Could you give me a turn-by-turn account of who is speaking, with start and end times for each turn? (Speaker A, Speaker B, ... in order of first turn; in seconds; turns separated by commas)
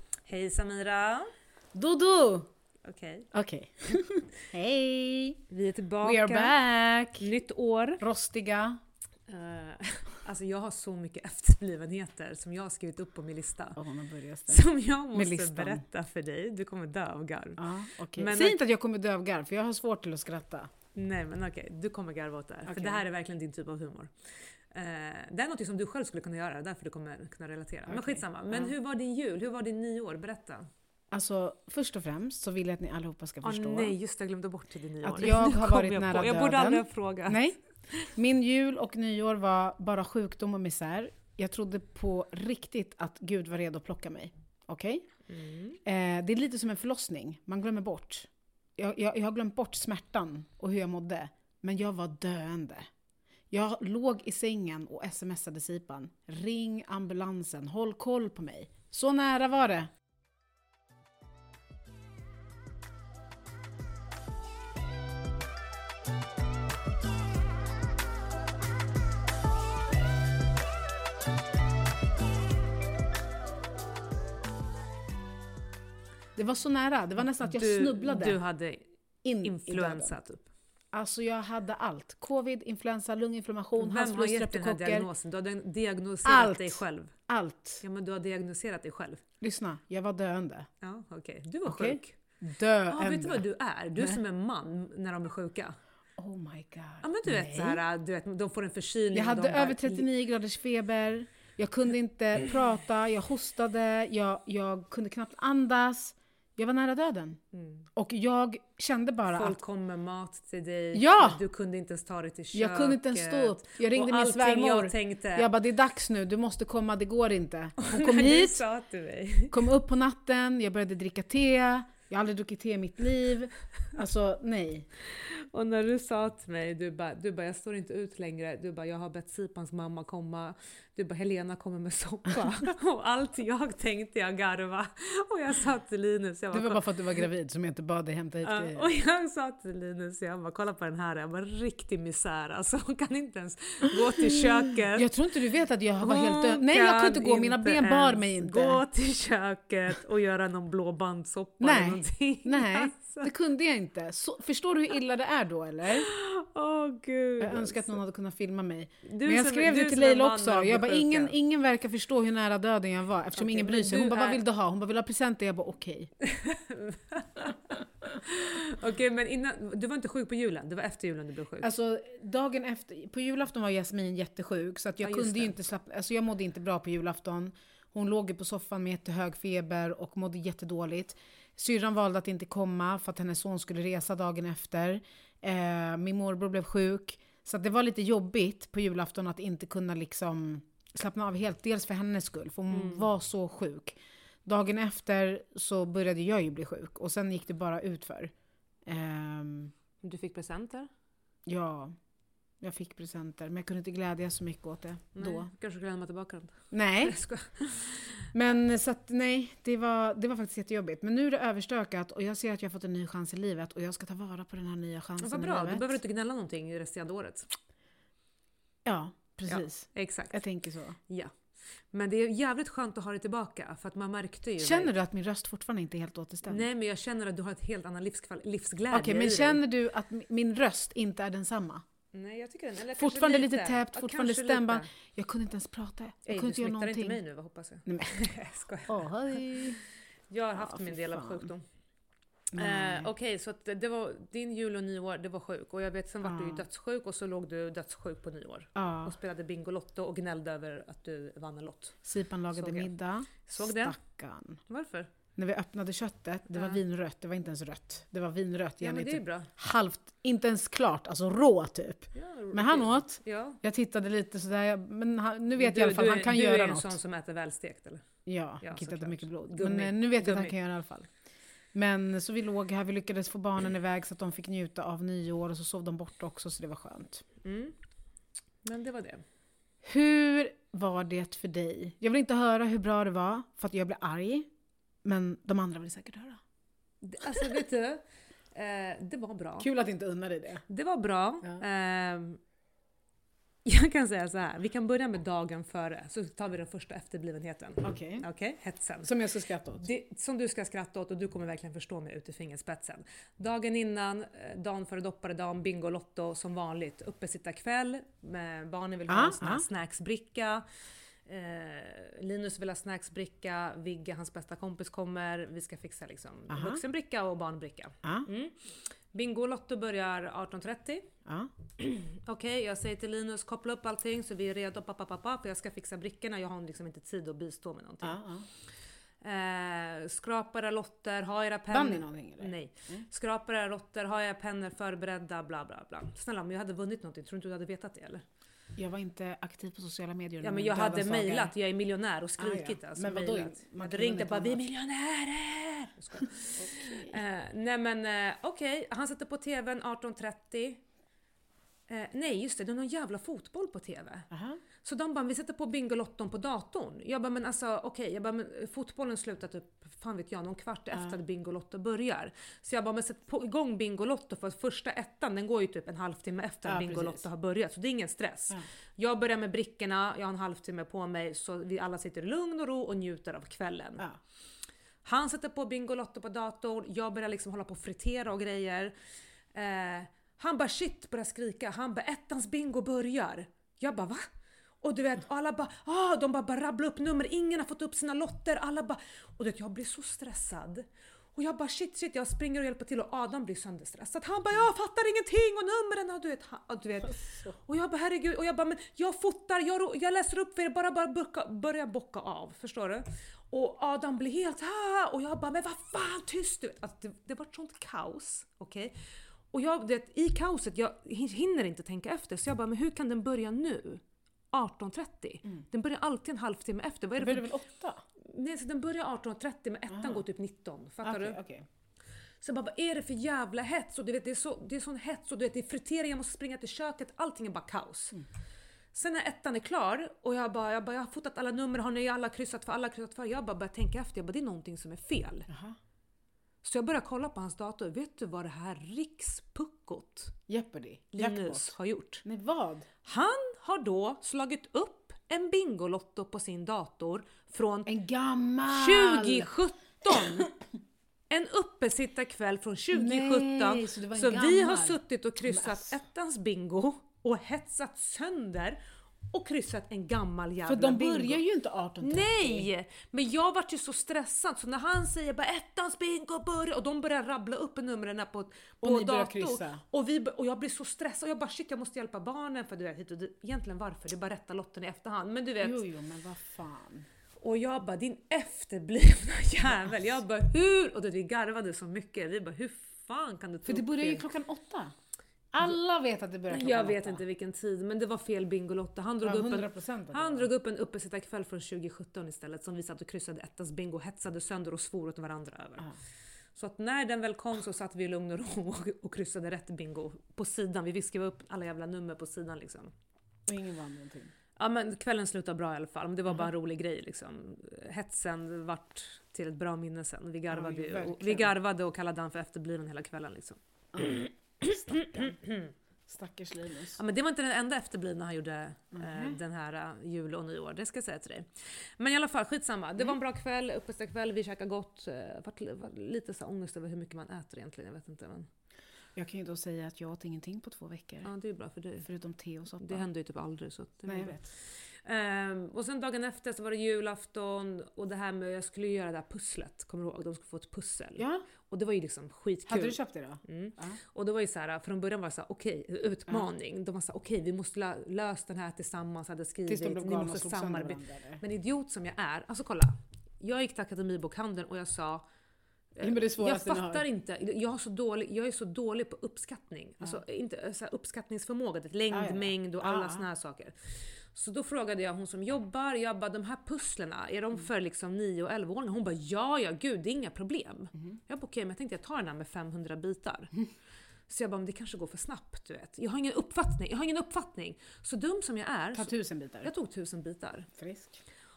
Speaker A: 0.2-1.3, Speaker B: 1.7-2.5, Speaker A: 2.8-3.3, Speaker B: 3.3-5.4, Speaker A: 5.5-6.6, Speaker B: 6.0-7.3, Speaker A: 7.2-8.0, Speaker B: 8.0-8.8, Speaker A: 9.3-13.8, Speaker B: 13.8-15.8, Speaker A: 14.5-18.6, Speaker B: 17.6-20.7, Speaker A: 20.9-30.7, Speaker B: 22.6-23.0, Speaker B: 27.9-28.7, Speaker B: 31.1-33.9, Speaker A: 33.4-38.1, Speaker B: 35.0-37.6, Speaker B: 38.1-45.1, Speaker A: 45.3-45.8, Speaker B: 45.8-52.9, Speaker B: 53.5-59.9, Speaker B: 76.3-78.4, Speaker A: 77.3-78.9, Speaker B: 79.2-80.1, Speaker A: 79.4-80.5, Speaker B: 80.9-85.1, Speaker A: 83.8-87.1, Speaker B: 86.2-87.8, Speaker A: 87.8-89.2, Speaker B: 89.4-90.7, Speaker A: 90.8-92.1, Speaker B: 91.7-93.5, Speaker A: 92.9-95.8, Speaker B: 96.2-97.8, Speaker A: 97.0-100.1, Speaker B: 99.1-107.4, Speaker A: 107.5-107.8, Speaker B: 108.0-109.6, Speaker A: 109.3-115.5, Speaker B: 110.9-111.4, Speaker B: 112.5-118.6, Speaker A: 117.8-119.6, Speaker B: 119.5-124.9, Speaker A: 125.0-136.8, Speaker B: 136.5-138.8, Speaker A: 138.4-145.1, Speaker B: 144.8-148.8, Speaker A: 146.0-153.3, Speaker B: 151.6-156.1, Speaker A: 155.9-158.0, Speaker B: 157.4-166.1, Speaker A: 159.0-161.3, Speaker A: 163.3-164.4, Speaker A: 166.2-171.7, Speaker B: 171.6-198.3, Speaker A: 175.0-175.5, Speaker A: 192.7-193.1, Speaker B: 198.8-199.7, Speaker A: 200.0-200.9, Speaker B: 201.4-201.9, Speaker B: 202.6-205.5, Speaker A: 205.2-208.3, Speaker B: 206.7-207.2, Speaker B: 208.3-216.0, Speaker A: 215.2-217.5, Speaker B: 218.8-221.0, Speaker A: 219.5-220.4, Speaker A: 221.1-221.3, Speaker A: 221.9-224.9, Speaker B: 224.6-226.7, Speaker A: 226.4-229.6, Speaker B: 228.9-231.8, Speaker A: 232.1-234.9, Speaker B: 232.9-237.2, Speaker A: 236.2-239.8, Speaker B: 237.8-238.3, Speaker B: 238.9-239.8, Speaker A: 240.3-241.6, Speaker B: 240.5-241.5, Speaker B: 242.5-243.1, Speaker A: 242.6-252.0, Speaker B: 246.2-246.6, Speaker B: 248.8-249.2, Speaker B: 252.0-254.6, Speaker A: 252.5-252.9, Speaker A: 253.4-254.0, Speaker A: 254.7-255.1, Speaker B: 255.3-267.0, Speaker A: 256.5-256.8, Speaker A: 258.8-259.5, Speaker A: 262.1-263.6, Speaker A: 265.6-268.0, Speaker B: 268.2-271.1, Speaker A: 268.6-270.5, Speaker B: 271.7-277.2, Speaker A: 277.4-277.7, Speaker A: 278.6-279.2, Speaker B: 279.8-284.5, Speaker B: 285.0-286.4, Speaker A: 287.0-288.0, Speaker A: 288.5-289.7, Speaker B: 289.6-290.6, Speaker A: 290.7-292.4, Speaker A: 293.6-299.1, Speaker B: 297.8-298.2, Speaker B: 299.0-299.9, Speaker A: 299.8-310.6, Speaker B: 309.1-309.6, Speaker A: 311.2-321.1, Speaker B: 316.5-316.8, Speaker B: 321.2-321.5, Speaker A: 321.8-328.2, Speaker B: 328.0-328.4, Speaker A: 329.2-338.2, Speaker B: 331.7-333.1, Speaker B: 338.8-341.5, Speaker A: 340.4-350.8, Speaker B: 342.4-344.6, Speaker B: 346.6-347.2, Speaker A: 351.9-354.3, Speaker B: 354.3-354.6, Speaker A: 354.8-374.1, Speaker B: 366.6-367.2, Speaker A: 375.0-378.9, Speaker A: 379.5-384.2, Speaker A: 384.8-408.9, Speaker B: 397.1-397.5, Speaker A: 409.5-417.6, Speaker B: 417.2-418.0, Speaker A: 418.2-421.4, Speaker B: 419.9-420.2, Speaker B: 421.0-421.6, Speaker A: 422.4-428.2, Speaker A: 428.9-435.5, Speaker B: 435.5-435.8, Speaker A: 436.6-440.4, Speaker B: 440.5-441.7, Speaker A: 441.1-442.2, Speaker B: 442.2-442.9, Speaker A: 443.0-447.9, Speaker B: 447.9-449.5, Speaker A: 448.7-450.5, Speaker B: 450.0-450.5, Speaker A: 451.3-458.8, Speaker B: 452.9-456.0, Speaker A: 459.3-461.4, Speaker B: 460.6-462.7, Speaker A: 462.0-475.8, Speaker B: 468.8-469.8, Speaker B: 475.6-477.1, Speaker A: 477.4-484.3, Speaker B: 483.6-484.9, Speaker B: 485.5-487.2, Speaker A: 486.5-495.9, Speaker B: 489.2-490.5, Speaker A: 496.5-502.9, Speaker B: 503.5-504.3, Speaker A: 504.6-515.7, Speaker B: 510.5-511.5, Speaker B: 513.9-515.4, Speaker B: 516.1-517.0, Speaker A: 516.9-528.5, Speaker B: 518.9-519.4, Speaker B: 529.1-531.3, Speaker A: 531.2-532.1, Speaker B: 532.0-533.0, Speaker A: 532.8-555.2, Speaker B: 534.1-534.5, Speaker B: 541.2-541.4, Speaker B: 542.7-544.0, Speaker B: 549.7-551.4, Speaker A: 556.0-573.6, Speaker B: 556.0-557.0, Speaker B: 562.1-563.2, Speaker A: 574.3-579.1, Speaker B: 578.9-579.7, Speaker A: 579.6-580.7, Speaker B: 580.8-581.2